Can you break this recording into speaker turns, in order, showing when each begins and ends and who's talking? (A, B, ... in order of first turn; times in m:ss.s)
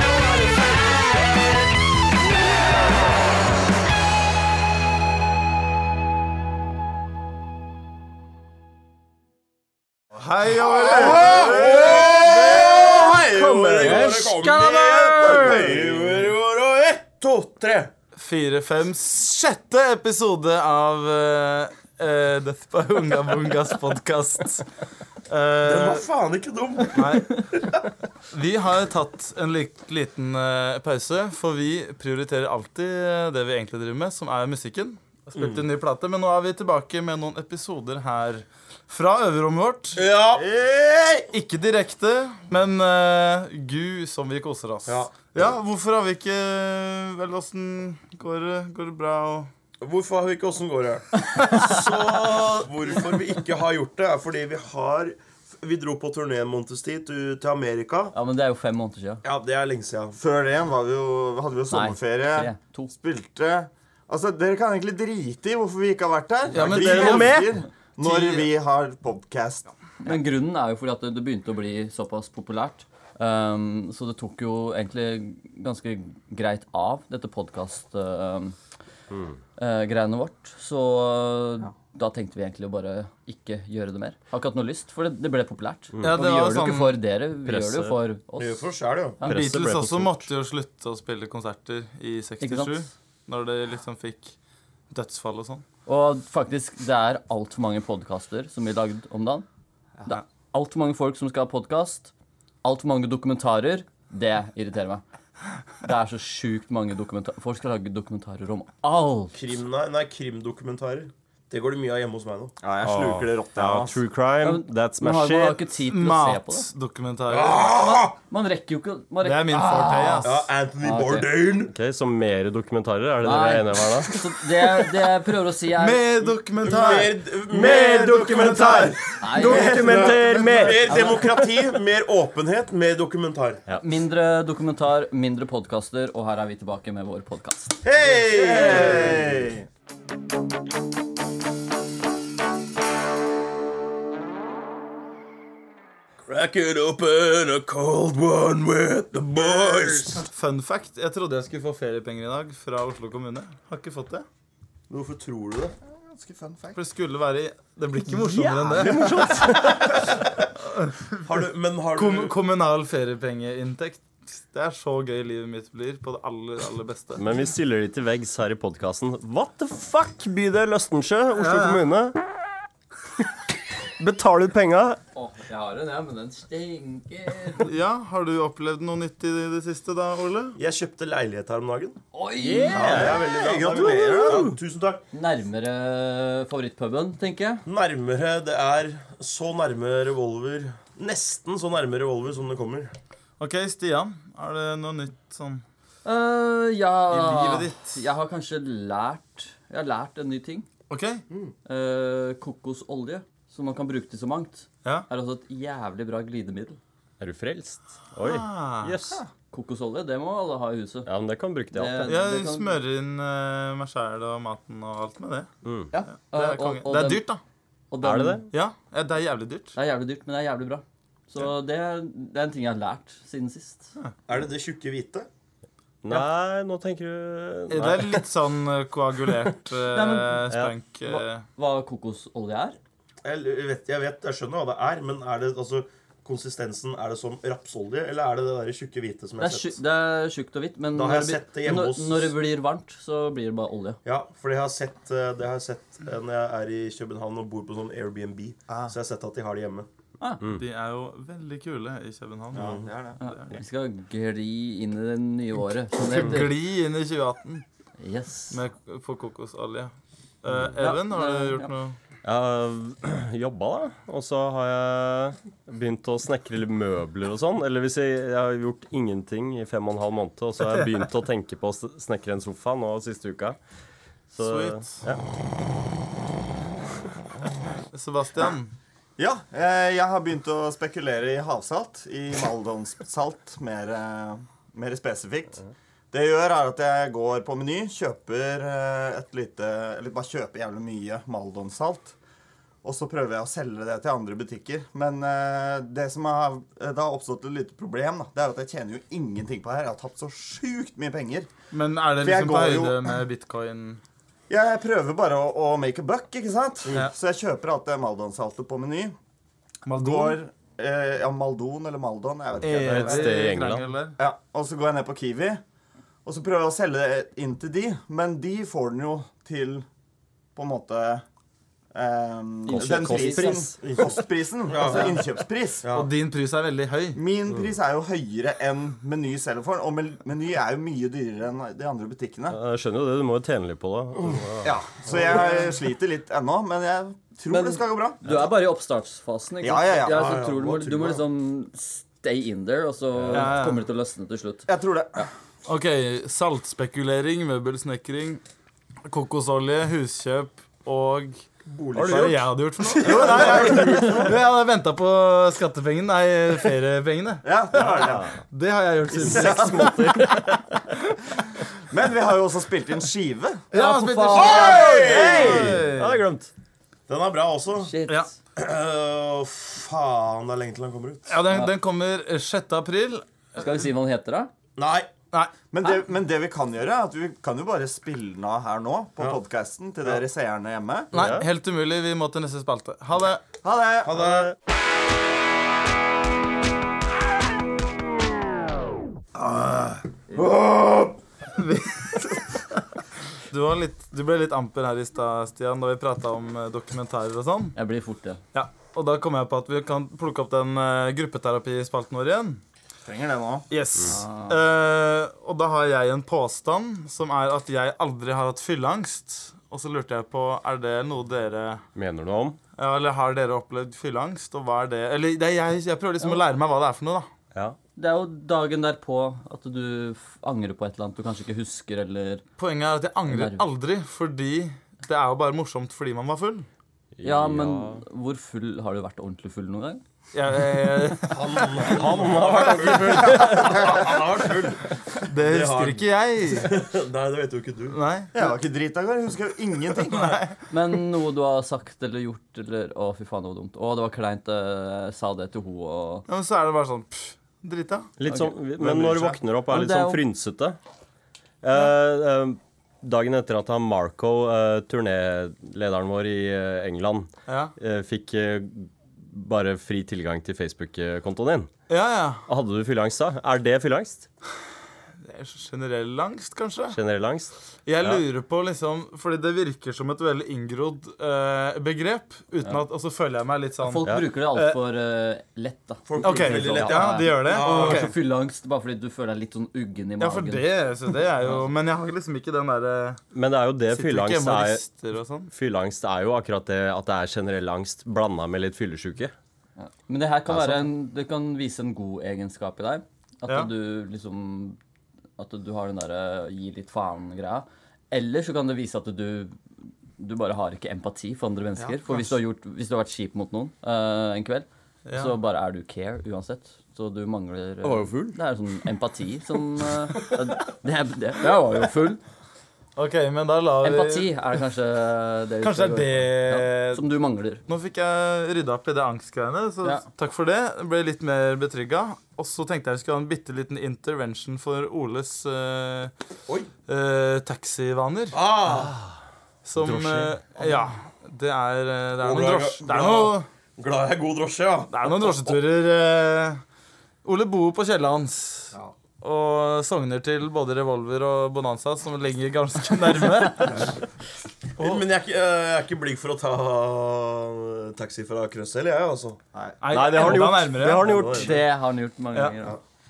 0:10.1-0:12.0 A
0:10.6-0:14.2 B
0:10.7-0:17.9 C
0:13.8-0:15.9 D
0:15.2-0:16.2 B
0:18.2-0:24.7 A
0:25.3-0:26.1 A
0:25.6-0:27.6 C
0:26.9-0:27.8 A
0:28.3-0:40.0 A
0:35.4-0:35.7 C
0:40.0-0:40.4 C
0:40.3-0:41.3 B
0:41.3-0:49.5 A
0:44.9-0:45.1 C
0:49.8-0:58.1 C
0:58.1-0:59.2 D
0:59.2-1:00.2 C
1:00.2-1:09.7 B
1:01.7-1:02.9 D
1:06.5-1:08.5 A
1:06.6-1:07.6 E
1:10.0-1:18.6 D
1:19.1-1:19.4 E
1:19.6-1:28.7 D
1:26.0-1:27.0 A
1:27.4-1:28.0 E
1:28.4-1:29.2 C
1:29.2-1:30.3 E
1:29.3-1:34.4 A
1:32.4-1:32.9 D
1:34.9-1:35.6 A
1:35.9-1:39.5 D
1:40.1-1:42.1 D
1:42.6-1:45.0 D
1:45.8-1:49.4 D
1:49.3-1:52.5 C
1:52.6-1:54.0 B
1:52.8-1:55.6 E
1:54.4-1:56.7 D
1:55.9-1:57.7 A
1:57.3-1:58.2 C
1:57.6-2:00.3 D
1:59.2-2:00.5 A
1:59.8-2:01.8 C
2:00.8-2:01.4 D
2:01.7-2:04.3 E
2:03.2-2:06.1 D
2:05.7-2:07.2 A
2:06.6-2:13.6 C
2:07.5-2:10.9 B
2:09.2-2:09.8 D
2:09.4-2:11.0 E
2:10.9-2:11.5 D
2:13.8-2:17.8 D
2:17.8-2:19.3 C
2:18.0-2:19.7 B
2:26.3-2:30.3 C
2:29.4-2:30.2 B
2:30.3-2:34.2 A
2:34.9-2:35.8 C
2:35.8-2:36.8 B
2:36.8-2:39.2 A
2:38.7-2:39.7 B
2:38.7-2:40.0 E
2:40.7-2:41.1 A
2:41.2-2:42.3 C
2:42.0-2:47.2 A
2:47.2-2:52.2 E
2:51.4-2:51.8 A
2:54.0-2:55.0 E
2:55.2-2:57.7 D
2:57.6-3:00.6 A
3:00.6-3:02.0 C
3:02.1-3:03.2 D
3:02.4-3:03.2 E
3:02.7-3:05.0 C
3:02.8-3:04.5 B
3:04.2-3:04.6 E
3:05.1-3:07.6 D
3:07.7-3:12.9 C
3:13.4-3:15.6 A
3:16.0-3:20.7 D
3:17.1-3:18.0 A
3:20.9-3:21.2 A
3:21.6-3:26.8 D
3:27.2-3:29.2 E
3:28.2-3:29.0 A
3:29.5-3:31.1 D
3:31.0-3:32.1 E
3:31.7-3:32.8 D
3:32.0-3:35.5 A
3:35.6-3:35.9 E
3:35.9-3:37.2 D
3:36.2-3:37.4 A
3:37.9-3:38.4 D
3:38.0-3:38.5 E
3:38.5-3:39.8 A
3:39.8-3:43.9 D
3:44.3-3:45.3 C
3:46.0-3:48.2 E
3:47.7-3:51.4 A
3:49.9-3:50.5 D
3:51.1-3:52.8 D
3:53.2-3:59.8 C
3:59.4-4:04.0 D
4:00.9-4:02.4 C
4:04.0-4:09.9 C
4:08.7-4:08.9 B
4:10.6-4:13.5 A
4:12.5-4:13.2 B
4:13.2-4:16.6 D
4:16.0-4:17.6 A
4:18.0-4:18.6 D
4:18.5-4:19.9 A
4:20.4-4:22.0 A
4:20.8-4:21.7 D
4:22.2-4:33.6 E
4:34.3-4:35.2 E
4:34.3-4:35.0 A
4:37.9-4:38.7 A
4:39.2-4:52.2 B
4:52.8-5:01.5 B
5:01.7-5:04.0 A
5:02.2-5:03.1 B
5:04.5-5:09.2 B
5:09.8-5:10.4 A
5:10.0-5:13.5 B
5:12.6-5:14.2 A
5:12.8-5:13.8 E
5:14.2-5:15.6 B
5:16.2-5:19.9 B
5:20.6-5:21.2 B
5:21.9-5:25.9 B
5:22.7-5:23.7 D
5:22.7-5:23.8 E
5:23.8-5:25.2 C
5:25.8-5:26.1 C
5:25.9-5:27.2 A
5:27.1-5:32.6 B
5:32.5-5:34.8 E
5:34.6-5:38.2 B
5:35.1-5:35.6 C
5:37.5-5:45.3 D
5:39.6-5:40.5 B
5:40.1-5:41.2 C
5:43.3-5:43.8 A
5:44.7-5:45.3 B
5:45.6-5:48.4 A
5:49.1-5:51.4 A
5:51.7-5:52.4 B
5:51.9-6:00.3 A
5:52.0-5:52.4 C
5:53.0-5:54.4 B
5:53.0-5:54.1 C
5:57.4-5:58.3 B
5:57.8-5:58.4 E
5:59.1-6:00.4 B
5:59.2-6:00.9 E
6:01.8-6:03.6 B
6:03.7-6:05.1 D
6:03.7-6:06.2 A
6:04.3-6:05.8 C
6:04.9-6:05.8 B
6:05.1-6:06.5 E
6:07.1-6:08.0 C
6:07.8-6:08.3 D
6:08.6-6:11.4 C
6:11.3-6:13.9 A
6:13.6-6:14.5 D
6:14.8-6:15.1 C
6:15.7-6:21.1 B
6:21.1-6:21.5 E
6:21.1-6:23.4 A
6:23.6-6:24.4 B
6:24.0-6:24.5 C
6:29.4-6:31.2 C
6:31.5-6:32.6 A
6:33.5-6:37.8 A
6:37.8-6:38.4 D
6:38.5-6:42.6 A
6:43.0-6:43.7 B
6:43.7-6:51.8 A
6:44.0-6:44.6 D
6:52.0-6:52.6 E
6:52.8-6:57.3 A
6:58.0-7:02.4 D
7:02.6-7:06.7 A
7:03.3-7:03.6 D
7:07.2-7:08.0 E
7:07.2-7:10.0 D
7:10.3-7:11.8 A
7:11.3-7:18.0 C
7:11.9-7:13.8 E
7:15.2-7:16.8 A
7:17.9-7:18.4 A
7:18.3-7:20.4 B
7:20.0-7:20.6 A
7:20.7-7:26.3 D
7:26.3-7:28.1 A
7:28.2-7:30.8 E
7:28.8-7:29.4 B
7:29.7-7:30.2 D
7:31.6-7:41.7 E
7:37.5-7:37.7 A
7:41.9-7:42.5 A
7:42.5-7:44.3 E
7:45.2-7:47.0 A
7:46.9-7:48.2 E
7:47.8-7:54.8 A
7:53.8-8:00.7 D
7:54.0-7:54.3 E
7:56.1-7:58.2 C
7:56.2-7:58.1 A
8:00.2-8:03.2 A
8:03.3-8:04.8 E
8:03.9-8:05.5 A
8:05.5-8:09.3 E
8:09.8-8:14.8 D
8:10.5-8:10.9 E
8:15.4-8:19.6 D
8:20.2-8:32.2 D
8:25.0-8:25.4 A
8:27.8-8:28.4 E
8:33.0-8:34.3 A
8:33.8-8:37.6 D
8:35.6-8:37.1 A
8:37.7-8:46.1 A
8:46.9-8:48.4 A
8:48.3-8:49.0 C
8:48.7-8:49.2 E
8:49.6-8:53.5 A
8:49.8-8:50.4 E
8:52.2-8:54.9 C
8:54.9-8:56.6 A
8:57.2-9:03.9 A
9:04.8-9:09.4 C
9:04.8-9:05.0 A
9:09.5-9:09.8 B
9:09.8-9:11.2 A
9:09.9-9:11.6 E
9:11.0-9:11.6 C
9:11.3-9:12.8 D